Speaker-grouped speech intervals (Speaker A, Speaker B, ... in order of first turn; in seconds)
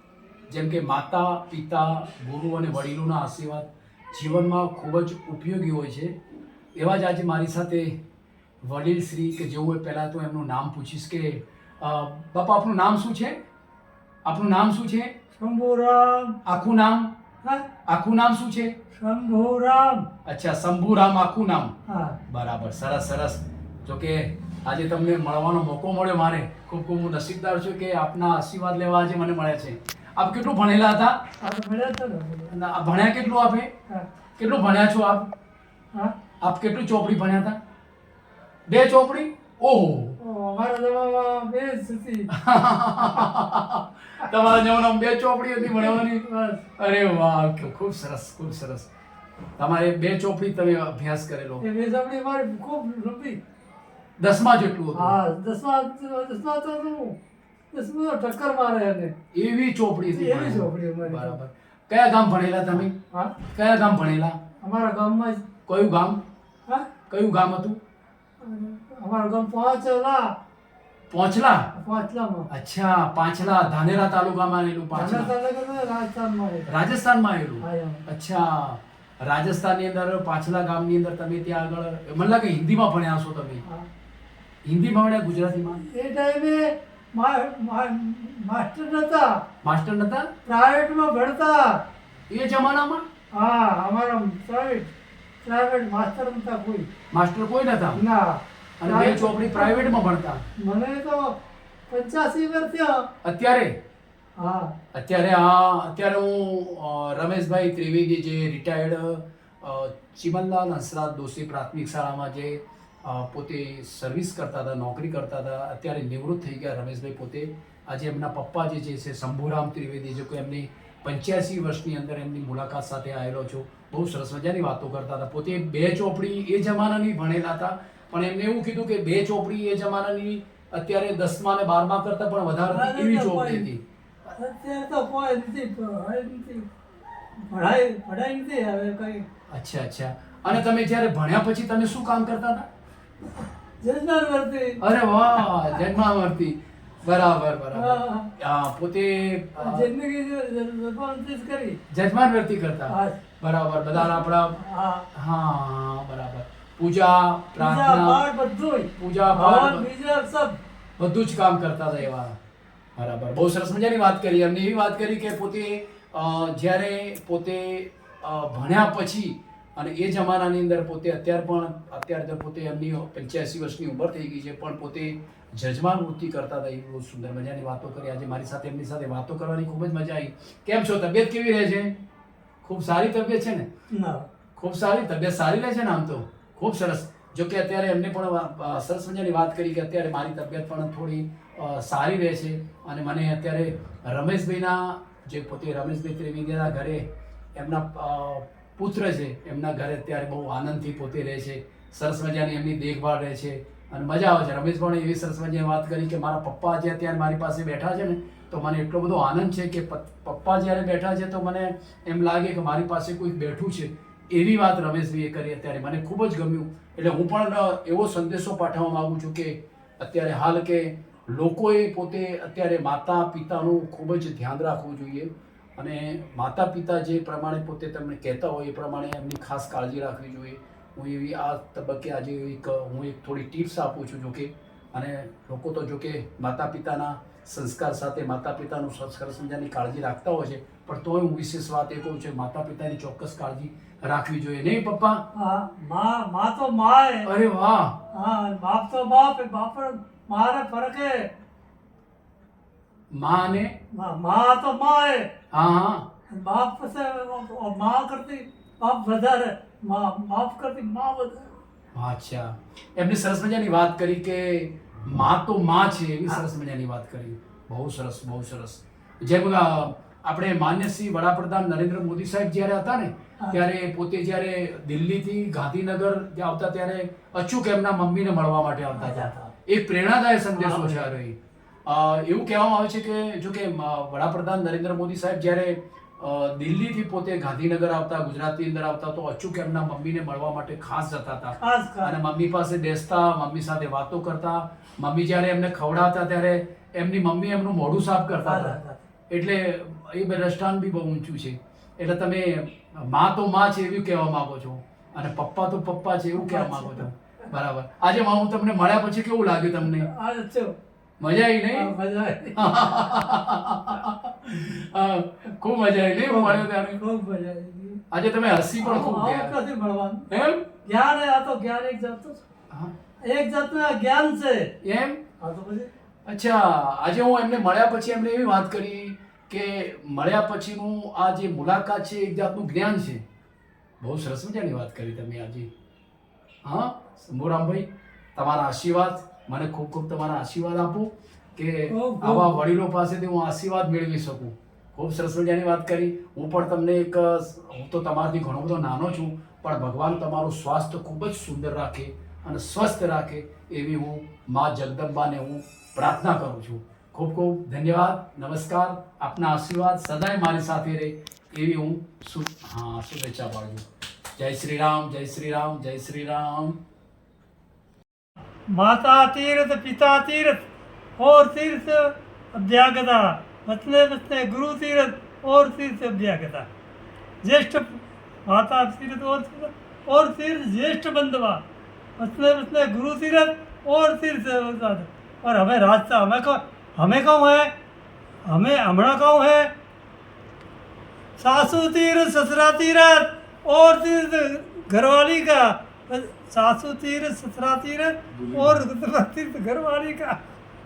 Speaker A: 0.5-6.2, 6.7-8.0, 8.6-13.4, 14.2-15.1, 16.4-17.1, 17.9-18.8, 20.2-21.7, 22.3-31.2, 32.5-33.7, 34.4-35.3, 36.4-37.6, 38.7-40.2, 42.3-46.2, 46.8-48.9, 49.6-51.6, 54.2-55.2, 59.3-62.9, 63.5-64.4, 65.7-66.2, 67.1-67.8, 71.1-71.7, 72.5-75.3, 76.7-83.6, 84.6-85.8, 89.6-90.3, 92.3-93.0, 97.1-98.0, 98.8-100.5, 103.2-103.8, 104.9-133.8, 139.5-142.7, 144.8-149.9, 151.9-154.6, 155.1-158.2, 159.0-159.8, 161.0-162.3, 163.0-181.9, 182.6-183.7, 184.6-197.0, 197.5-245.2, 247.2-247.9, 253.1-253.7, 255.5-256.1, 261.9-281.4, 281.9-298.8, 299.3-310.1, 311.2-311.9, 312.6-317.0, 318.1-319.6, 320.3-320.7, 324.8-325.2, 326.2-333.2, 334.0-335.7, 336.6-363.9, 364.4-366.8, 398.4-398.8
Speaker B: 15.4-16.4, 17.4-17.7, 18.9-20.1, 21.9-22.2, 31.4-32.5, 40.2-42.3, 45.6-46.6, 51.6-53.4, 54.9-57.2, 57.7-59.1, 60.1-61.4, 63.1-63.4, 64.6-65.4, 68.4-70.3, 71.7-72.5, 74.9-76.7, 77.6-78.0, 85.8-89.3, 90.4-91.8, 93.3-94.9, 95.4-96.9, 97.9-99.9, 100.6-101.4, 101.9-103.1, 104.4-104.7, 132.7-133.7, 134.3-136.7, 137.5-139.2, 143.8-144.8, 147.7-148.3, 149.6-151.8, 152.9-153.2, 153.9-155.1, 157.6-160.6, 183.9-184.3, 245.3-247.3, 248.1-251.3, 253.9-255.3, 256.3-261.6, 278.9-279.5, 280.6-281.0, 291.6-292.1, 298.4-299.0, 306.4-307.1, 309.8-310.8, 311.7-312.7, 316.2-318.0, 318.8-320.3, 320.8-322.4, 323.2-324.7, 325.4-325.9, 341.9-342.6, 368.7-376.7, 377.4-381.6, 382.2-387.7, 388.4-389.7, 391.4-400.4